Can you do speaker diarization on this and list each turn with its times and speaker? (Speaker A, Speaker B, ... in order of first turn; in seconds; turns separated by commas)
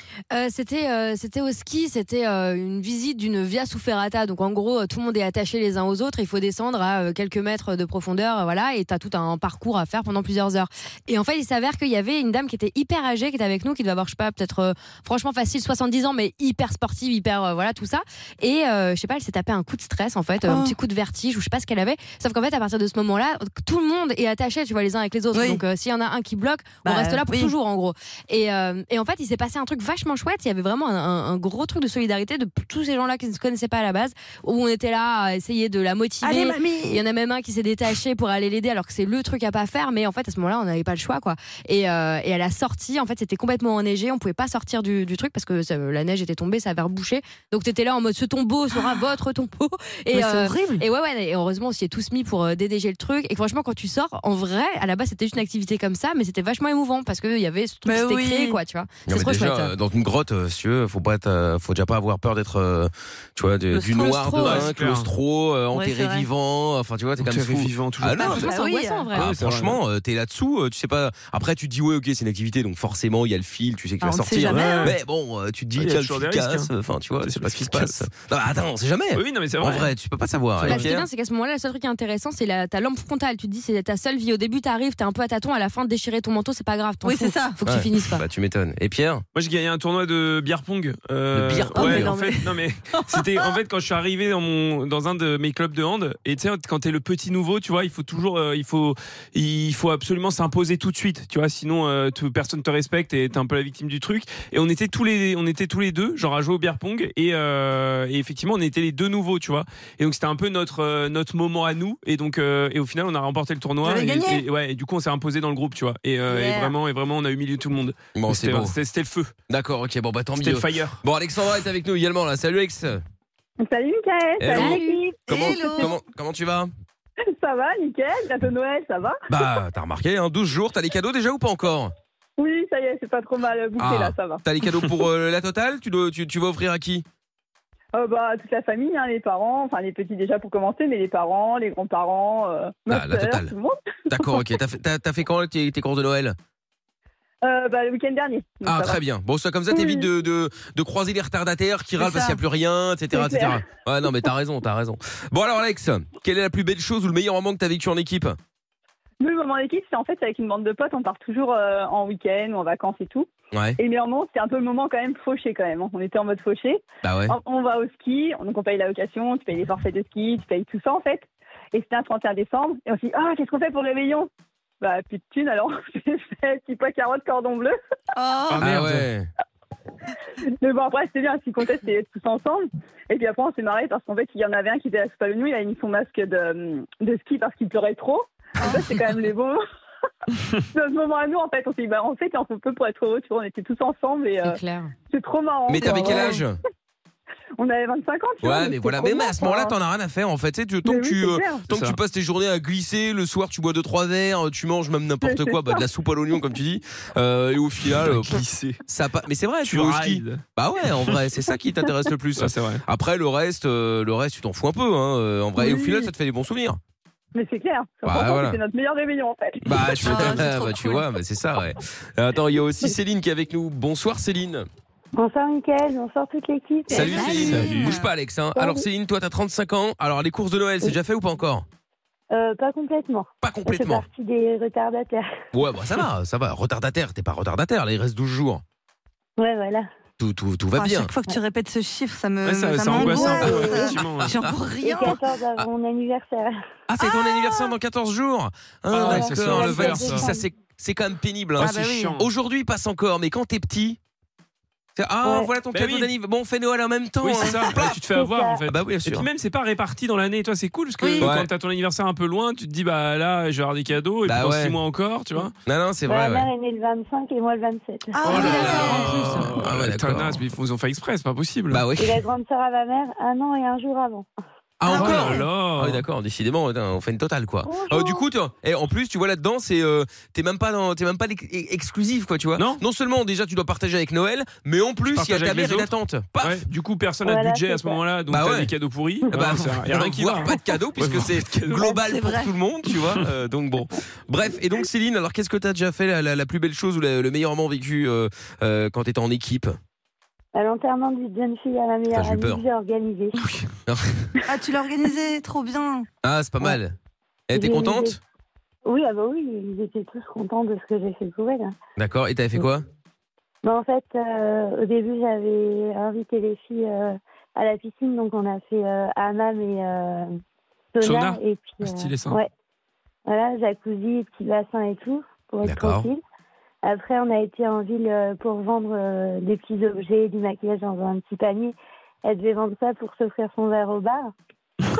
Speaker A: 0.3-59.7, Speaker B: 20.5-20.8, Speaker B: 25.3-25.6, Speaker B: 26.8-27.5, Speaker B: 36.2-37.0, Speaker B: 48.7-49.0, Speaker B: 50.1-50.8, Speaker B: 57.9-58.6, Speaker C: 59.1-68.5, Speaker B: 63.7-64.7, Speaker D: 64.4-65.1, Speaker B: 65.7-66.3, Speaker D: 67.2-68.5, Speaker B: 68.2-69.1, Speaker A: 68.3-69.3, Speaker D: 69.1-69.8, Speaker C: 69.1-81.1, Speaker B: 74.0-74.9, Speaker D: 74.5-75.0, Speaker D: 75.8-76.7, Speaker D: 77.2-78.1, Speaker D: 79.2-79.9, Speaker D: 80.6-80.9, Speaker A: 80.7-88.2, Speaker B: 87.0-87.6, Speaker C: 87.7-89.2, Speaker D: 89.3-119.3, Speaker C: 91.3-92.1, Speaker B: 91.8-93.5, Speaker B: 113.8-114.5, Speaker B: 116.3-116.7, Speaker C: 118.2-118.7, Speaker C: 119.5-123.0, Speaker D: 120.4-121.0, Speaker E: 123.6-125.9, Speaker C: 124.4-126.7, Speaker A: 124.6-124.9, Speaker B: 125.3-125.9, Speaker E: 127.3-129.2, Speaker C: 129.3-131.9, Speaker E: 132.4-134.4, Speaker C: 133.8-137.1, Speaker E: 137.9-144.4, Speaker C: 142.9-143.5, Speaker C: 144.1-146.4, Speaker E: 147.4-149.0, Speaker C: 148.6-158.4, Speaker E: 149.7-150.1, Speaker B: 152.0-152.3, Speaker E: 153.1-153.6, Speaker E: 159.2-174.3, Speaker C: 163.5-163.8, Speaker C: 167.0-167.4, Speaker E: 174.8-177.8, Speaker B: 178.2-178.7, Speaker D: 178.5-179.1, Speaker C: 178.6-179.3, Speaker E: 180.6-189.6, Speaker E: 190.7-194.6, Speaker A: 194.4-194.9, Speaker E: 195.1-196.5, Speaker C: 195.7-196.6, Speaker E: 197.6-199.8, Speaker C: 198.4-216.8, Speaker E: 200.8-201.7, Speaker D: 201.7-202.0, Speaker E: 205.2-205.8, Speaker D: 207.9-208.8, Speaker D: 209.6-210.4, Speaker D: 212.4-212.8, Speaker E: 215.6-216.1, Speaker E: 217.3-219.6, Speaker C: 218.1-218.6, Speaker C: 219.6-224.7, Speaker B: 220.0-221.0, Speaker F: 225.2-227.7, Speaker C: 226.9-231.7, Speaker B: 226.9-228.1, Speaker F: 228.6-228.8, Speaker F: 232.3-235.3, Speaker C: 233.4-234.1, Speaker C: 235.5-238.6, Speaker F: 239.4-239.9, Speaker C: 240.2-241.1, Speaker B: 240.8-245.2, Speaker D: 242.4-244.4, Speaker F: 243.0-244.0, Speaker F: 244.8-246.5, Speaker C: 246.9-254.0, Speaker D: 248.9-250.3, Speaker F: 249.0-250.5, Speaker B: 251.6-252.2, Speaker D: 251.6-252.3, Speaker C: 255.0-258.0, Speaker F: 255.2-255.5, Speaker D: 255.7-256.1, Speaker D: 257.2-265.5, Speaker F: 258.1-258.6, Speaker C: 258.7-259.3, Speaker B: 261.0-261.3, Speaker C: 261.2-261.5, Speaker C: 264.3-264.8, Speaker C: 265.7-266.5, Speaker F: 266.1-268.8, Speaker B: 268.1-269.5, Speaker D: 268.3-271.8, Speaker C: 268.3-270.4, Speaker C: 271.7-272.2, Speaker F: 272.0-274.3, Speaker C: 274.8-286.6, Speaker D: 274.9-276.0, Speaker B: 274.9-275.3, Speaker F: 277.6-278.2, Speaker D: 285.1-291.9, Speaker F: 287.3-288.0, Speaker C: 288.3-288.7, Speaker C: 289.3-299.8, Speaker B: 291.7-292.5, Speaker F: 300.5-303.4, Speaker C: 302.1-302.6, Speaker C: 303.9-304.1, Speaker B: 304.5-306.1, Speaker C: 306.2-306.9, Speaker C: 307.5-308.2, Speaker F: 307.6-308.2, Speaker F: 308.9-311.8, Speaker C: 312.0-312.8, Speaker F: 313.6-320.3, Speaker F: 320.9-322.5, Speaker D: 321.0-322.4, Speaker F: 323.3-326.2, Speaker C: 325.6-326.1, Speaker F: 326.8-334.3